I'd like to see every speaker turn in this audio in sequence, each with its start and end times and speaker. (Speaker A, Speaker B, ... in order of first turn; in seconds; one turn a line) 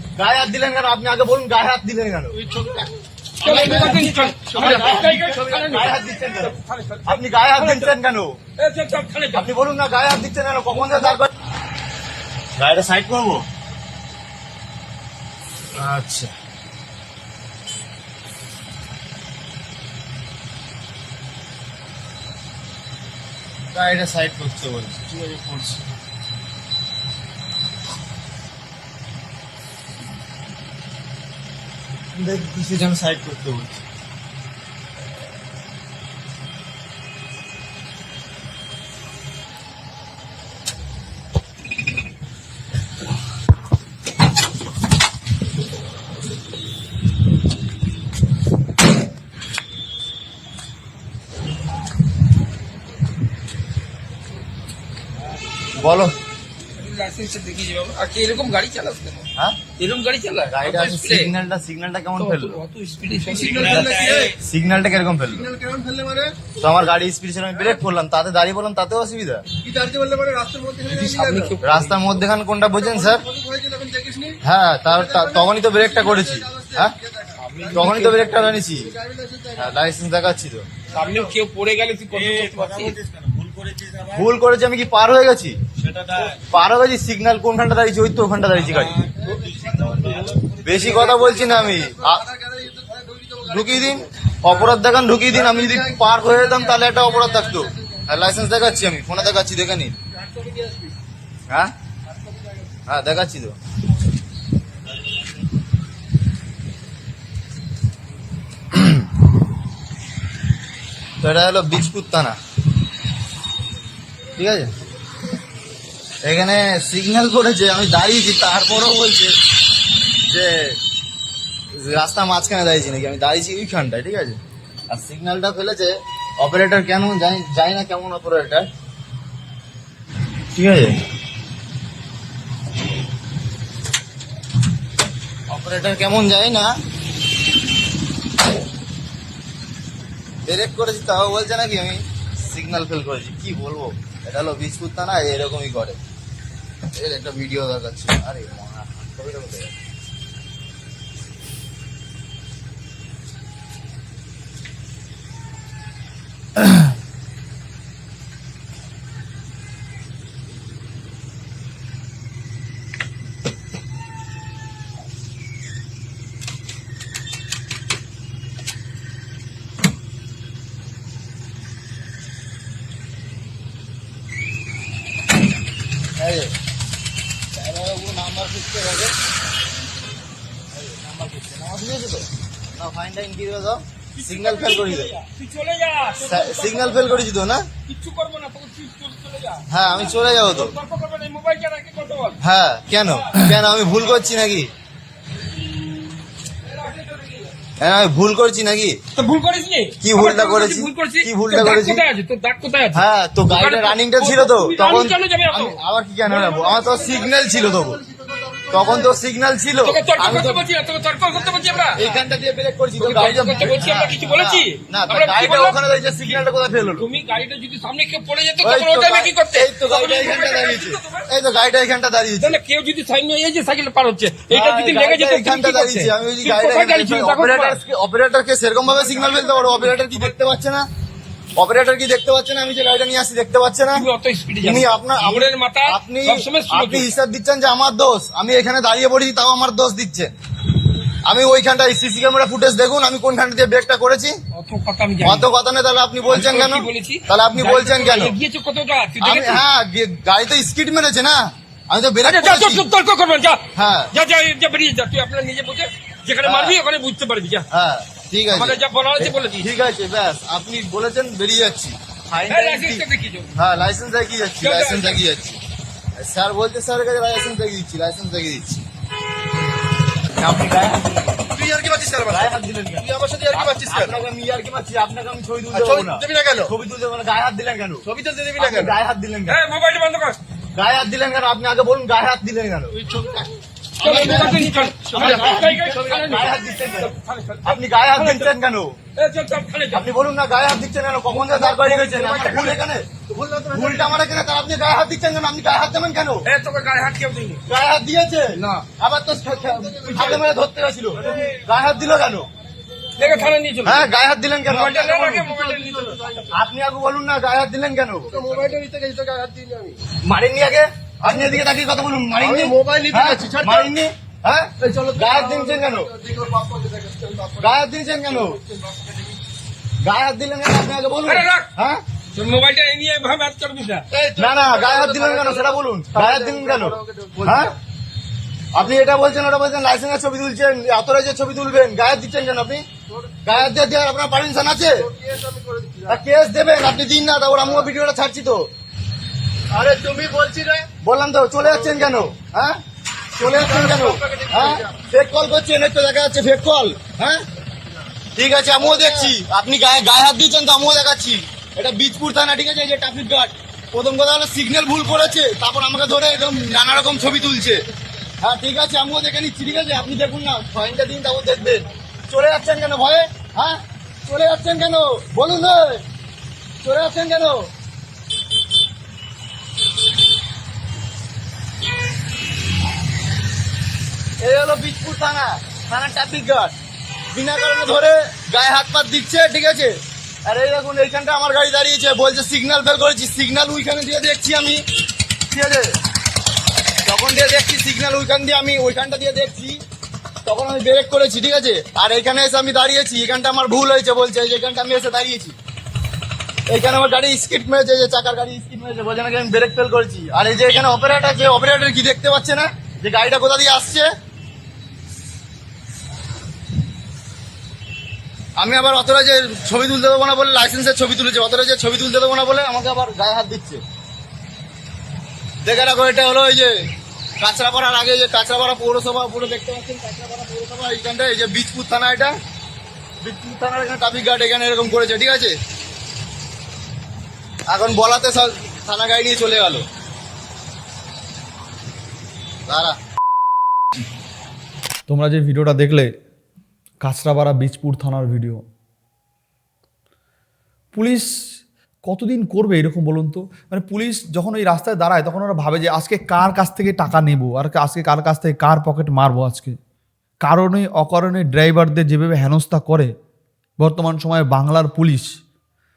Speaker A: 0.1-2.4
Speaker B: 2.4-2.9
Speaker A: 3.4-6.5
Speaker C: 3.4-8.0
Speaker B: 4.6-5.3
Speaker A: 7.0-8.4
Speaker C: 8.6-9.5
Speaker A: 9.3-11.3
Speaker A: 12.6-13.5
Speaker A: 15.8-16.3
Speaker A: 23.7-25.8
Speaker A: 32.1-33.8
Speaker A: 55.7-56.1
Speaker C: 56.8-61.3
Speaker A: 60.5-62.6
Speaker C: 62.2-64.2
Speaker B: 63.2-64.4
Speaker A: 63.7-65.5
Speaker B: 65.3-66.4
Speaker A: 66.5-69.4
Speaker B: 69.6-71.5
Speaker C: 70.8-72.2
Speaker A: 71.6-73.2
Speaker B: 72.7-74.4
Speaker A: 74.4-77.0
Speaker B: 74.9-79.7
Speaker C: 77.5-78.2
Speaker A: 77.7-79.0
Speaker A: 79.5-80.7
Speaker C: 80.9-83.0
Speaker B: 83.0-84.2
Speaker A: 84.0-85.6
Speaker B: 85.9-86.2
Speaker A: 86.2-89.0
Speaker B: 89.0-94.0
Speaker A: 90.6-92.3
Speaker A: 93.4-100.0
Speaker B: 95.3-97.7
Speaker B: 100.2-100.9
Speaker A: 102.8-103.6
Speaker A: 108.7-109.0
Speaker A: 111.2-112.3
Speaker A: 114.3-114.7
Speaker A: 116.2-119.4
Speaker A: 120.2-120.8
Speaker A: 121.7-128.7
Speaker A: 130.5-131.0
Speaker A: 135.5-136.7
Speaker A: 140.4-146.0
Speaker A: 146.9-149.7
Speaker A: 176.2-176.5
Speaker A: 177.5-179.1
Speaker A: 180.7-185.1
Speaker C: 184.2-187.2
Speaker A: 186.2-187.7
Speaker C: 187.9-192.4
Speaker A: 189.7-190.7
Speaker A: 192.4-194.7
Speaker C: 196.7-197.5
Speaker A: 197.8-199.0
Speaker C: 199.2-205.8
Speaker A: 200.0-202.0
Speaker A: 202.9-208.0
Speaker C: 206.3-206.8
Speaker B: 206.8-209.1
Speaker A: 208.7-210.6
Speaker C: 209.8-212.0
Speaker A: 211.9-217.1
Speaker C: 213.0-216.3
Speaker C: 216.9-221.3
Speaker A: 218.6-222.6
Speaker C: 222.4-227.8
Speaker A: 224.5-230.9
Speaker C: 228.8-230.3
Speaker A: 231.6-234.1
Speaker C: 233.9-237.2
Speaker A: 234.6-240.3
Speaker A: 241.2-244.3
Speaker C: 244.5-245.5
Speaker A: 245.2-248.3
Speaker C: 246.3-249.6
Speaker A: 249.2-252.8
Speaker C: 252.2-253.6
Speaker A: 253.8-254.1
Speaker C: 254.1-257.6
Speaker A: 256.4-256.8
Speaker A: 257.7-265.6
Speaker C: 258.5-259.7
Speaker C: 262.5-263.5
Speaker C: 264.6-265.2
Speaker A: 266.1-268.8
Speaker A: 270.3-271.5
Speaker B: 271.6-272.5
Speaker A: 272.2-279.6
Speaker B: 273.0-274.2
Speaker B: 275.7-276.7
Speaker B: 278.1-278.9
Speaker C: 279.5-280.4
Speaker A: 280.8-283.0
Speaker B: 283.0-283.5
Speaker A: 284.0-287.1
Speaker C: 284.0-288.6
Speaker B: 285.1-285.6
Speaker A: 287.6-289.0
Speaker C: 289.1-290.1
Speaker A: 289.9-293.1
Speaker C: 291.5-292.8
Speaker B: 293.3-294.2
Speaker A: 293.6-296.5
Speaker C: 296.4-297.6
Speaker A: 297.7-302.5
Speaker C: 298.6-298.8
Speaker B: 299.7-300.4
Speaker C: 300.1-300.4
Speaker B: 301.2-301.5
Speaker C: 303.2-304.1
Speaker A: 303.8-305.4
Speaker C: 304.7-306.4
Speaker B: 305.4-306.5
Speaker A: 306.5-308.8
Speaker B: 308.3-310.0
Speaker A: 310.2-316.1
Speaker B: 311.3-311.5
Speaker B: 312.4-313.9
Speaker B: 314.8-317.7
Speaker A: 317.5-318.6
Speaker B: 318.4-319.2
Speaker A: 320.0-322.0
Speaker C: 321.2-321.7
Speaker C: 322.3-324.1
Speaker B: 324.1-327.7
Speaker A: 324.3-327.7
Speaker A: 328.7-332.8
Speaker A: 333.4-335.1
Speaker B: 335.1-336.2
Speaker A: 336.1-338.7
Speaker B: 339.7-340.9
Speaker A: 340.9-342.8
Speaker A: 343.3-347.4
Speaker B: 343.4-345.0
Speaker A: 348.3-357.8
Speaker B: 348.9-349.2
Speaker A: 358.4-366.0
Speaker A: 366.8-367.7
Speaker A: 374.4-376.7
Speaker A: 377.3-379.9
Speaker A: 380.4-384.8
Speaker A: 385.4-385.9
Speaker A: 387.0-389.8
Speaker A: 390.4-395.6
Speaker A: 396.7-404.1
Speaker A: 408.6-413.8
Speaker A: 415.6-416.7
Speaker A: 417.4-422.3
Speaker A: 423.2-425.5
Speaker A: 427.7-429.8
Speaker A: 432.7-432.9
Speaker D: 435.1-436.1
Speaker D: 437.0-438.6
Speaker D: 440.9-441.3
Speaker D: 442.1-449.8
Speaker D: 450.4-453.1
Speaker D: 453.8-455.3